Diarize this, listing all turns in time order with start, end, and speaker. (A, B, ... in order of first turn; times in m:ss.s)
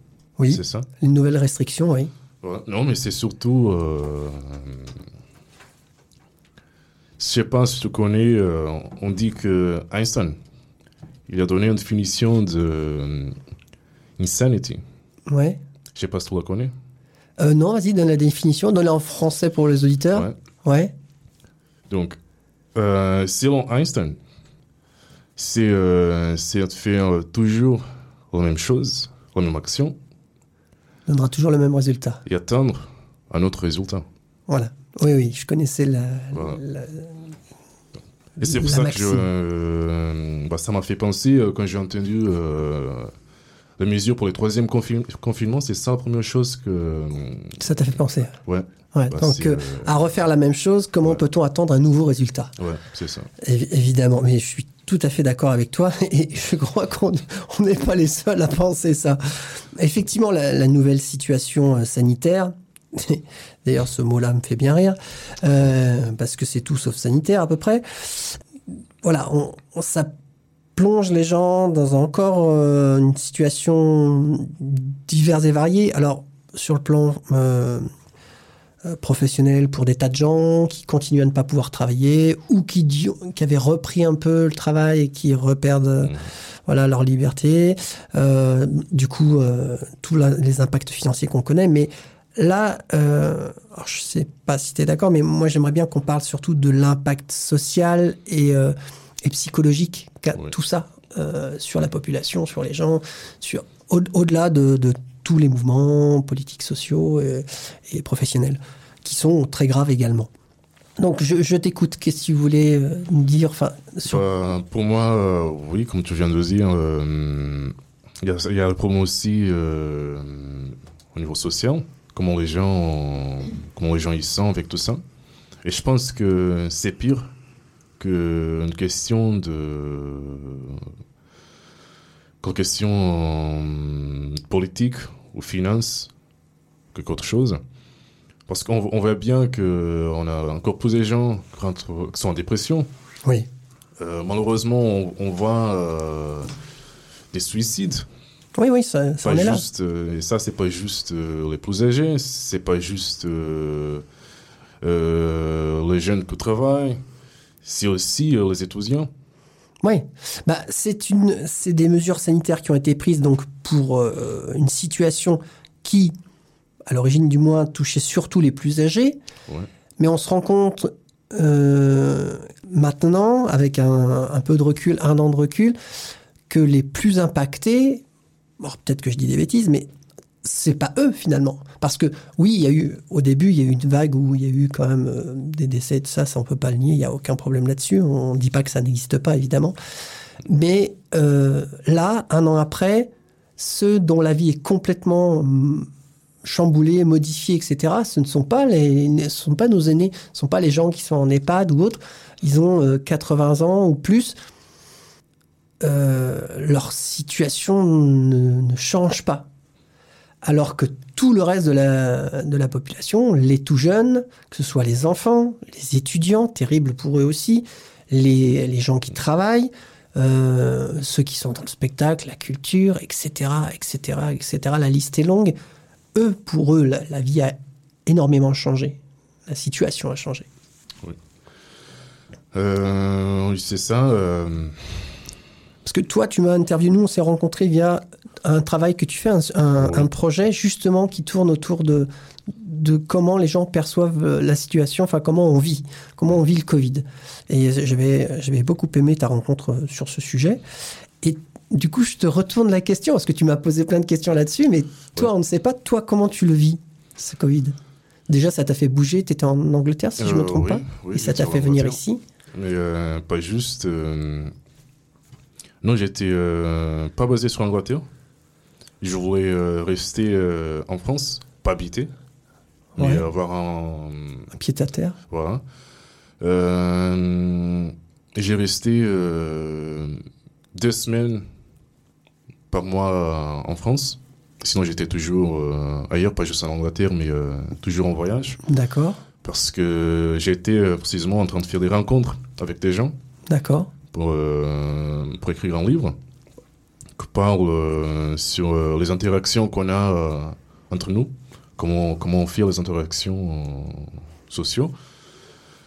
0:00.4-0:02.1 A
0:00.5-0:00.9 B
0:02.4-0:05.0 B
0:07.2-0:10.4 B
0:11.3-0:13.4 B
0:14.2-0:14.8 B
0:15.3-0:15.6 A
0:15.9-0:16.7 B
0:17.4-0:20.9 A
0:21.9-0:22.2 B
0:22.8-0:24.2 B
0:25.4-0:30.0 B
0:31.1-0:32.2 A
0:32.2-0:34.1 B
0:34.5-0:37.2 A
0:36.3-0:36.6 B
0:38.4-0:39.3 A
0:38.4-0:43.1 B
0:43.8-0:47.6 B
0:47.6-0:48.4 A
0:48.3-0:49.9 B
0:48.9-0:52.5 A
0:52.6-0:53.3 B
0:53.4-1:08.4 A
1:09.0-1:10.1 A
1:10.8-1:17.9 A
1:18.8-1:26.2 A
1:26.7-1:50.3 A
1:51.0-1:54.2 A
1:54.1-2:05.0 B
2:05.6-2:07.3 B
2:08.0-2:10.9 B
2:12.4-2:16.1 B
2:16.9-2:17.6 B
2:18.5-2:22.9 B
2:24.0-2:26.5 B
2:27.3-2:28.1 B
2:28.6-2:29.6 A
2:29.2-2:34.0 B
2:34.8-2:37.0 B
2:37.6-2:39.1 B
2:39.8-2:46.1 A
2:46.9-2:49.2 A
2:50.0-2:55.8 A
2:56.5-2:58.0 A
2:58.6-2:59.9 A
3:00.4-3:09.8 A
3:10.5-3:15.9 A
3:16.4-3:24.4 A
3:25.8-3:29.5 A
3:30.4-3:45.6 A
3:46.2-3:50.5 A
3:52.5-3:55.1 B
3:55.8-4:10.6 A
3:59.8-4:00.1 B
4:11.2-4:17.8 A
4:18.3-4:22.2 A
4:20.2-4:22.0 B
4:22.5-4:24.5 B
4:25.8-4:28.1 B
4:29.0-4:32.1 B
4:33.0-4:33.2 A
4:33.0-4:34.5 B
4:34.5-4:35.2 A
4:35.3-4:35.6 B
4:36.4-4:41.5 B
4:42.7-4:48.6 B
4:48.7-4:49.2 A
4:49.4-4:53.2 B
4:53.5-4:53.9 A
4:54.1-4:56.2 B
4:57.2-5:04.9 B